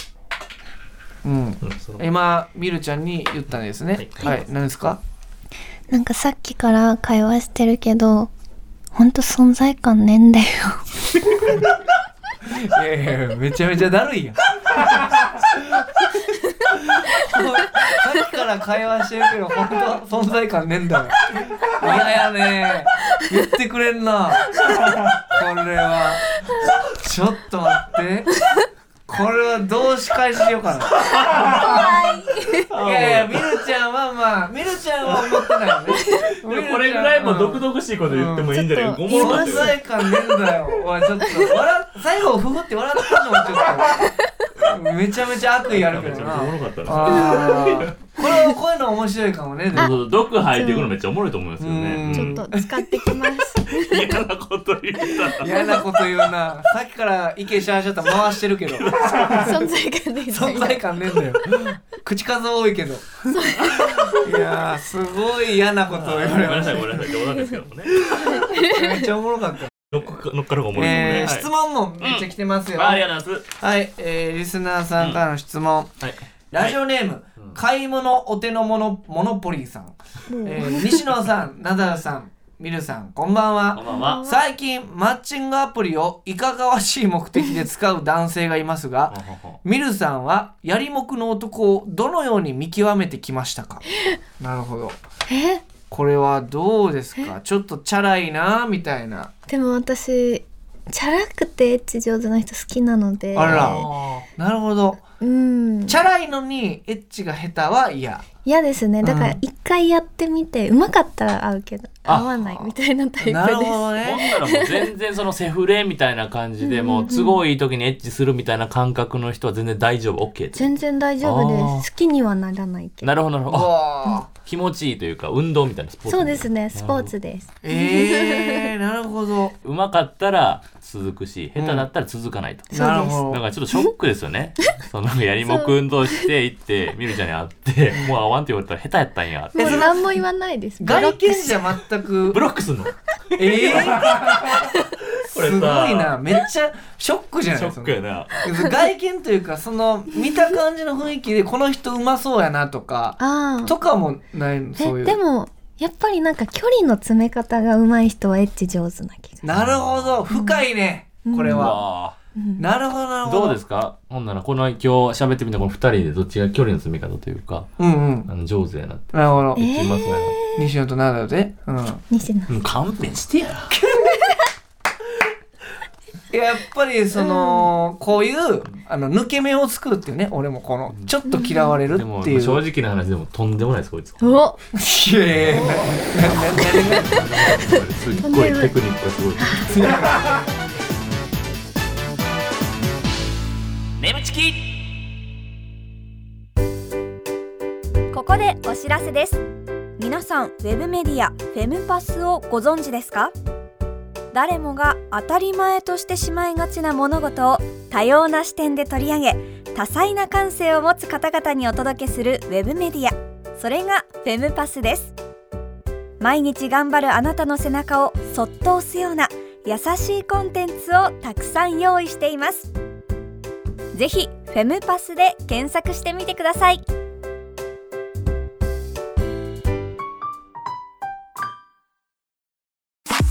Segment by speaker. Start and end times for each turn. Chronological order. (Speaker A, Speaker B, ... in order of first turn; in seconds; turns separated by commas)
Speaker A: 1.2-5.0, Speaker B: 1.6-2.0, Speaker B: 4.0-4.3, Speaker C: 5.9-8.3, Speaker C: 8.9-10.8, Speaker A: 12.5-15.0, Speaker A: 16.7-21.2, Speaker A: 21.7-26.3, Speaker A: 26.9-28.3, Speaker A: 29.1-31.8, Speaker B: 31.1-31.9, Speaker C: 31.6-32.7, Speaker B: 32.7-33.6, Speaker A: 32.8-38.5, Speaker B: 35.1-35.5, Speaker B: 36.4-39.8, Speaker C: 38.5-40.1, Speaker A: 39.1-49.9, Speaker B: 45.7-48.1, Speaker B: 49.7-52.4, Speaker C: 49.8-50.9, Speaker A: 51.6-52.7, Speaker C: 52.0-54.1, Speaker B: 53.6-55.9, Speaker A: 55.4-59.6, Speaker B: 58.9-59.4, Speaker C: 59.3-61.0, Speaker A: 60.3-63.3, Speaker B: 61.5-61.8, Speaker C: 63.3-64.2, Speaker B: 63.8-64.1, Speaker A: 64.2-67.2, Speaker B: 65.9-68.4, Speaker A: 68.1-69.7, Speaker C: 68.5-69.0, Speaker B: 69.9-71.5, Speaker A: 70.7-73.1, Speaker C: 70.8-71.3, Speaker B: 72.0-73.5, Speaker A: 73.6-75.9, Speaker B: 76.0-76.8, Speaker A: 76.5-93.8, Speaker B: 80.6-80.9, Speaker B: 83.8-84.3, Speaker C: 83.9-84.4, Speaker B: 89.1-89.6, Speaker A: 94.4-95.0, Speaker C: 95.3-95.7, Speaker A: 95.9-99.3, Speaker C: 99.5-103.8, Speaker B: 103.3-104.3, Speaker A: 103.3-105.0, Speaker C: 105.2-106.0, Speaker A: 105.9-108.2, Speaker C: 108.5-114.9, Speaker A: 109.0-109.4, Speaker A: 112.1-114.3, Speaker B: 114.0-121.9, Speaker C: 116.6-117.4, Speaker C: 120.5-123.1, Speaker B: 123.0-123.8, Speaker A: 123.5-124.3, Speaker B: 124.4-127.1, Speaker C: 126.1-128.7, Speaker A: 127.6-129.6, Speaker B: 129.6-140.0, Speaker A: 131.6-131.9, Speaker A: 132.7-133.4, Speaker C: 132.7-133.3, Speaker C: 135.4-136.3, Speaker C: 139.6-141.8, Speaker A: 139.6-139.9, Speaker A: 140.8-142.4, Speaker B: 142.3-146.4, Speaker A: 143.4-155.2, Speaker B: 147.5-148.7, Speaker C: 153.2-153.8, Speaker C: 154.8-159.4, Speaker A: 159.4-161.9, Speaker B: 159.5-160.2, Speaker C: 160.3-160.7, Speaker C: 161.2-161.8, Speaker B: 161.4-162.2, Speaker C: 162.4-162.7, Speaker A: 162.6-163.6, Speaker B: 163.2-167.7, Speaker A: 167.8-168.3, Speaker B: 168.3-170.4, Speaker A: 169.1-169.6, Speaker C: 169.6-170.7, Speaker A: 170.6-172.0, Speaker C: 172.1-172.5, Speaker B: 172.5-173.8, Speaker A: 176.3-182.6, Speaker C: 177.1-177.7, Speaker C: 181.3-181.8, Speaker B: 181.9-184.5, Speaker C: 184.2-184.6, Speaker A: 184.7-187.2, Speaker B: 185.3-185.8, Speaker C: 186.8-188.8, Speaker B: 186.8-189.9, Speaker C: 189.4-189.7, Speaker A: 189.7-190.3, Speaker B: 194.0-194.9, Speaker D: 198.1-199.4, Speaker D: 200.0-203.3, Speaker D: 204.3-215.1, Speaker D: 216.2-222.7, Speaker D: 223.9-226.8